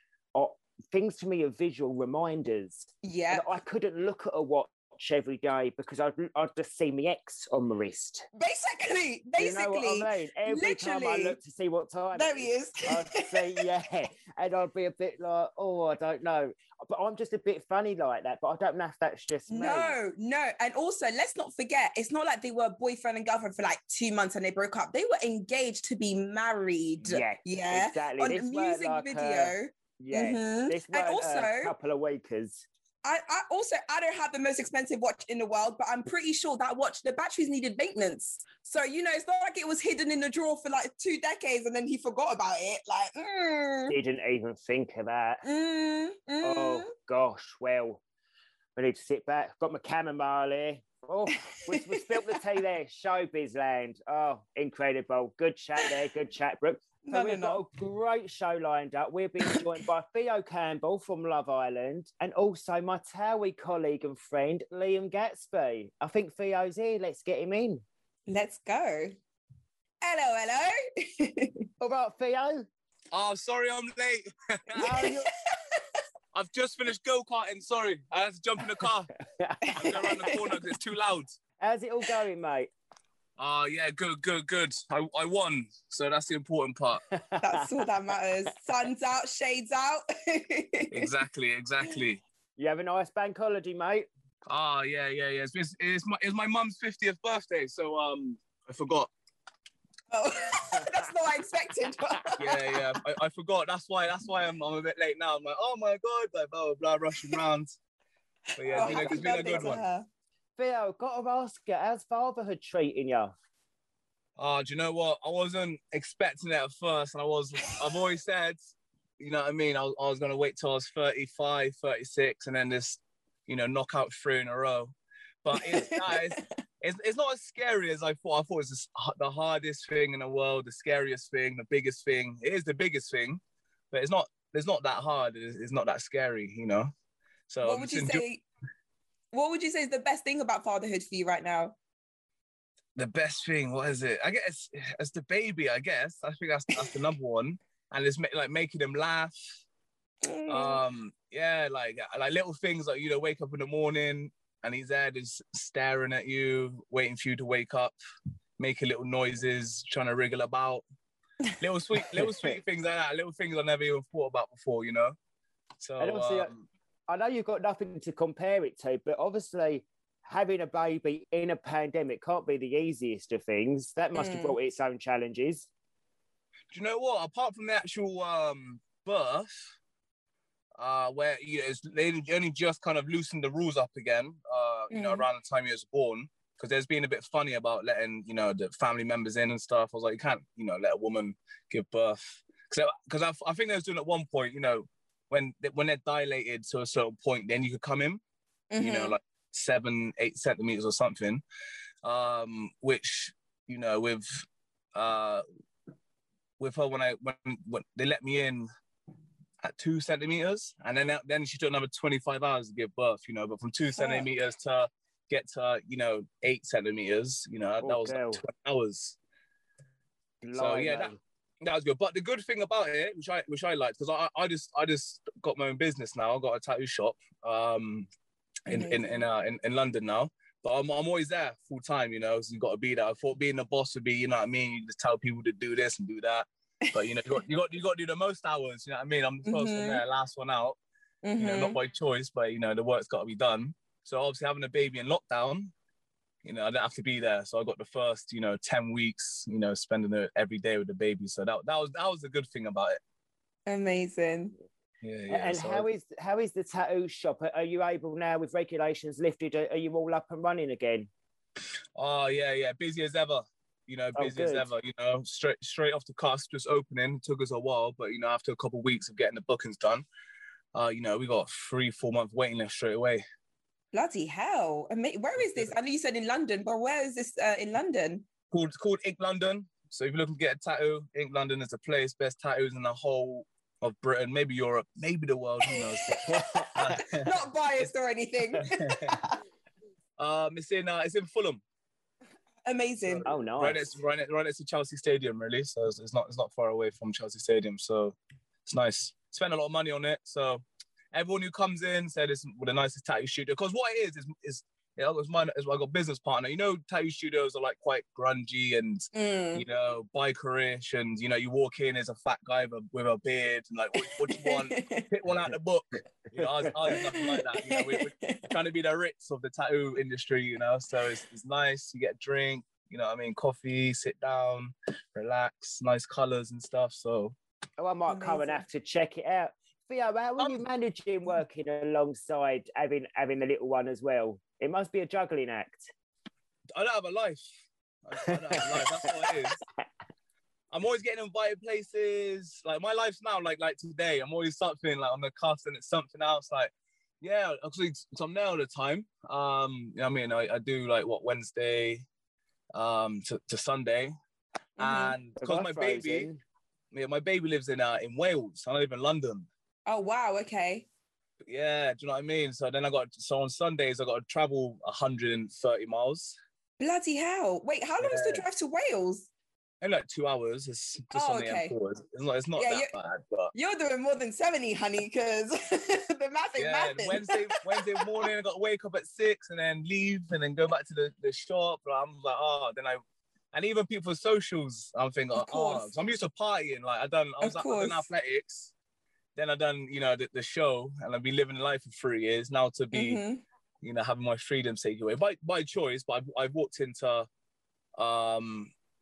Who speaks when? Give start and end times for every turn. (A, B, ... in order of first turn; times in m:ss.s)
0:00.3-0:08.2 A
0:03.0-0:03.5 B
0:08.3-0:11.4 B
0:09.4-0:20.0 A
0:12.1-0:13.6 B
0:19.5-0:31.7 B
0:27.0-0:32.6 A
0:33.0-0:43.9 B
0:43.9-0:45.4 A
0:45.4-0:46.9 B
0:46.4-0:48.0 A
0:48.8-1:07.8 A
0:51.7-0:52.4 B
0:57.0-0:57.6 B
1:08.3-1:09.2 B
1:10.0-1:11.6 B
1:11.8-1:12.7 A
1:13.1-1:15.1 C
1:14.7-1:15.3 A
1:14.8-1:15.8 B
1:16.3-1:19.1 C
1:19.4-1:20.2 A
1:19.6-1:20.6 B
1:19.8-1:21.3 C
1:21.6-1:22.7 A
1:23.4-1:27.0 C
1:27.2-1:27.7 A
1:27.4-1:31.1 B
1:30.9-1:32.2 C
1:32.6-1:34.1 A
1:34.4-1:39.1 C
1:40.1-1:42.8 B
1:42.4-1:47.8 C
1:48.6-1:49.8 C
1:48.6-1:50.0 B
1:48.7-1:49.7 A
1:50.6-1:53.3 A
1:54.4-2:16.9 C
2:05.5-2:06.4 B
2:17.5-2:18.2 C
2:17.6-2:18.4 B
2:19.3-2:21.8 B
2:23.0-2:29.4 C
2:30.2-2:30.8 B
2:30.5-2:37.9 C
2:38.6-2:40.8 C
2:41.6-2:45.2 C
2:45.8-2:46.6 C
2:46.0-2:46.5 A
2:47.1-2:55.7 A
2:54.1-2:54.6 B
2:56.7-2:59.6 C
3:00.8-3:18.2 C
3:04.9-3:05.3 B
3:18.7-3:19.2 B
3:18.7-3:21.4 C
3:22.0-3:25.4 C
3:26.6-3:28.7 C
3:29.6-3:39.2 C
3:34.0-3:34.3 B
3:37.8-3:38.4 A
3:40.4-3:41.2 A
3:40.5-3:48.1 C
3:48.7-4:00.8 C
3:48.7-3:49.2 B
3:59.4-4:00.0 B
4:01.2-4:01.8 B
4:01.4-4:05.7 C
4:06.4-4:13.0 C
4:13.7-4:14.5 B
4:15.0-4:15.9 C
4:15.3-4:21.1 A
4:22.0-4:30.0 C
4:24.1-4:24.7 A
4:30.7-4:33.2 C
4:33.9-4:38.3 B
4:35.4-4:35.7 C
4:38.5-4:46.2 C
4:45.7-4:46.0 B
4:46.0-4:47.0 A
4:46.7-4:47.9 C
4:46.9-4:49.4 B
4:48.4-4:49.2 C
4:50.2-4:51.6 C
4:52.6-4:53.3 B
4:53.0-5:27.3 C
4:53.2-4:54.0 A
5:09.1-5:09.6 B
5:14.2-5:15.1 B
5:16.4-5:16.7 A
5:16.9-5:18.4 B
5:27.8-5:35.9 A
5:28.1-5:28.6 B
5:30.4-5:30.6 C
5:36.8-5:37.5 C
5:38.0-5:39.6 C
5:38.2-5:39.6 A
5:40.7-5:52.0 C
5:52.8-5:54.1 C
5:54.8-5:55.2 B
5:54.8-5:56.3 C
5:55.4-5:56.4 A
5:56.9-5:59.5 C
5:59.9-6:00.8 B
6:01.4-6:06.4 C
6:06.8-6:09.3 B
6:08.0-6:08.4 C
6:09.8-6:13.5 C
6:11.1-6:11.7 B
6:12.6-6:12.9 B
6:13.5-6:18.2 B
6:16.6-6:23.0 C
6:23.5-6:28.7 C
6:25.3-6:25.9 B
6:27.4-6:28.0 B
6:29.3-6:33.2 C
6:32.9-6:33.4 B
6:33.8-6:37.3 C
6:38.0-6:38.7 C